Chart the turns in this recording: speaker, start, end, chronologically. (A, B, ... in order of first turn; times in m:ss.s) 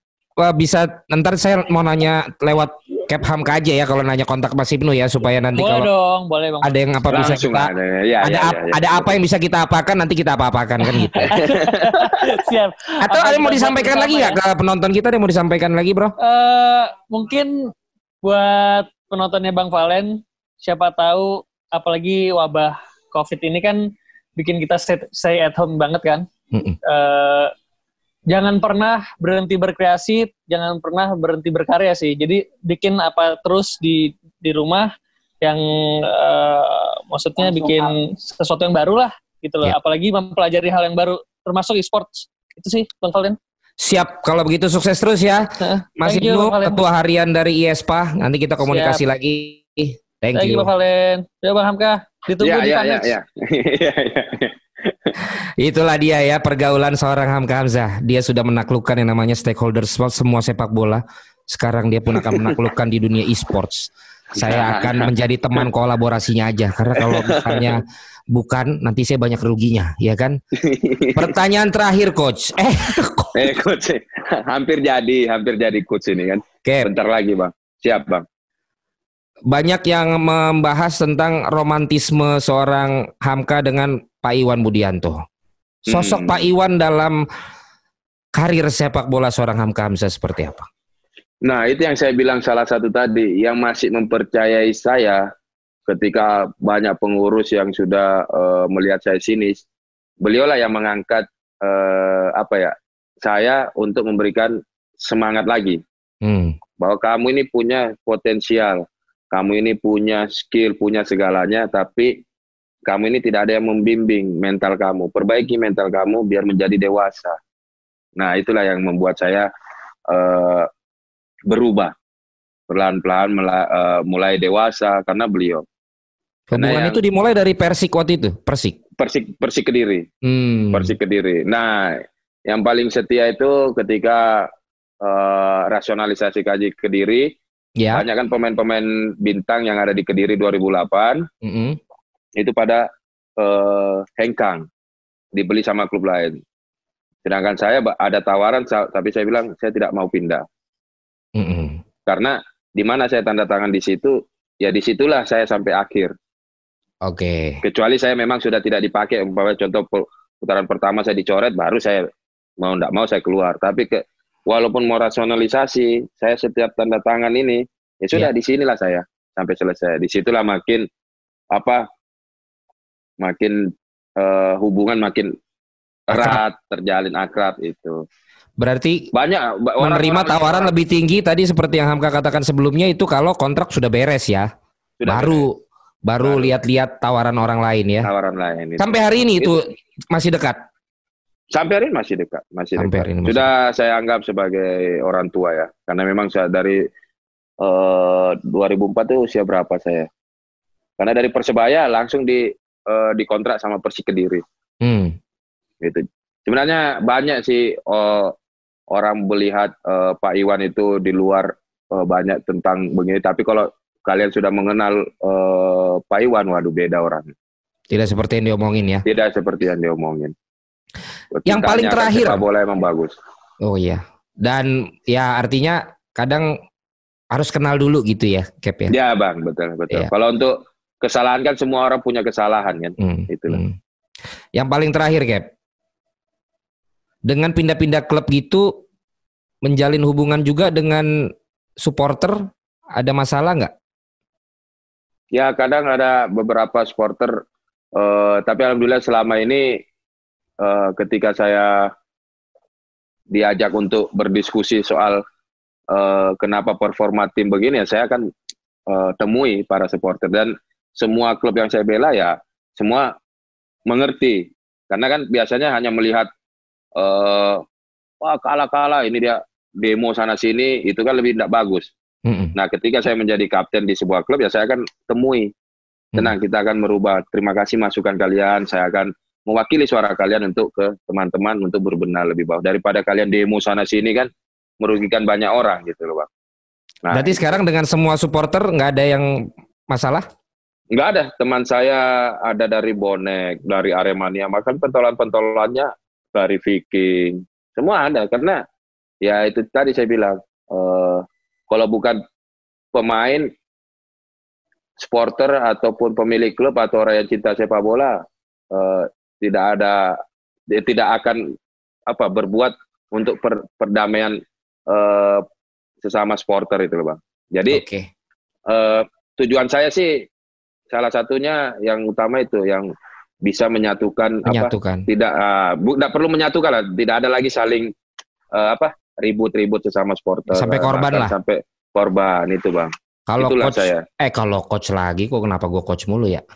0:00.4-0:05.9 A
0:05.6-0:07.3 B
0:06.6-0:11.4 A
0:07.1-0:09.1 C
0:10.8-0:14.4 B
0:11.2-0:12.4 C
0:13.0-0:16.1 A
0:16.2-0:17.7 B
0:18.2-0:26.3 B
0:26.8-0:27.5 B
0:28.3-0:34.9 B
0:35.4-0:43.4 B
0:43.8-0:50.7 A
0:45.6-0:46.8 B
0:48.7-0:49.0 B
0:50.3-0:53.1 B
0:52.4-0:55.1 C
0:55.6-1:10.4 A
1:02.1-1:02.6 C
1:04.3-1:05.6 C
1:07.0-1:07.8 C
1:10.6-1:11.3 C
1:11.2-1:13.4 A
1:13.3-1:18.2 C
1:19.5-1:25.2 A
1:25.9-1:26.5 C
1:25.9-1:27.2 A
1:28.3-1:30.7 A
1:31.4-1:35.3 C
1:35.9-1:39.6 C
1:40.2-1:45.8 C
1:46.2-1:46.6 A
1:46.8-1:52.2 C
1:52.9-1:57.4 C
1:58.2-1:59.5 C
2:00.1-2:00.7 C
2:01.5-2:01.9 C
2:02.7-2:05.6 C
2:06.5-2:08.8 A
2:06.5-2:07.0 C
2:09.0-2:10.1 C
2:10.2-2:10.9 A
2:10.7-2:14.5 C
2:15.0-2:17.3 C
2:17.8-2:18.0 A
2:17.9-2:21.2 C
2:21.4-2:21.8 A
2:22.4-2:22.9 C
2:23.4-2:24.6 C
2:25.3-2:26.4 C
2:27.2-2:30.4 C
2:31.4-2:31.8 A
2:32.0-2:36.1 C
2:37.0-2:37.6 A
2:37.6-2:42.0 C
2:42.6-2:50.8 C
2:51.5-2:51.8 C
2:53.2-2:55.3 C
2:56.1-2:58.0 C
2:56.1-2:56.4 A
2:58.6-2:59.0 A
2:59.1-3:00.7 C
2:59.8-3:04.5 A
3:05.0-3:05.4 C
3:05.1-3:08.1 A
3:06.2-3:06.5 C
3:08.0-3:09.6 C
3:08.8-3:10.6 A
3:11.5-3:16.9 C
3:12.8-3:13.5 A
3:17.6-3:20.1 C
3:21.0-3:24.4 C
3:24.8-3:25.2 A
3:25.8-3:28.3 C
3:28.9-3:37.3 C
3:37.9-3:39.0 A
3:39.0-3:40.3 C
3:41.3-3:43.1 C
3:41.4-3:42.4 A
3:43.6-3:46.6 A
3:47.3-3:48.9 A
3:48.9-3:53.6 C
3:53.0-3:53.8 A
3:54.6-3:55.5 A
3:57.2-3:58.7 A
3:59.6-4:01.3 A
4:01.8-4:02.4 A
4:03.0-4:03.7 A
4:05.3-4:07.4 C
4:08.0-4:09.8 C
4:10.6-4:11.9 C
4:13.3-4:15.2 C
4:15.9-4:18.3 C
4:18.9-4:23.1 C
4:23.9-4:26.3 C
4:27.0-4:27.6 C
4:28.2-4:31.9 C
4:32.2-4:32.5 A
4:32.5-4:35.5 C
4:36.1-4:44.3 C
4:44.8-4:46.3 C
4:47.0-4:47.4 C
4:47.1-4:50.2 A
4:50.9-4:58.6 C
4:59.2-5:02.2 C
5:02.9-5:03.5 C
5:05.0-5:08.2 C
5:08.7-5:10.2 C
5:10.7-5:11.5 C
5:12.1-5:15.4 C
5:16.0-5:17.8 C
5:17.7-5:18.1 A
5:18.7-5:20.2 C
5:20.9-5:22.9 C
5:23.4-5:27.9 C
5:24.4-5:25.0 A
5:28.5-5:34.0 C
5:30.5-5:31.3 A
5:33.3-5:36.4 A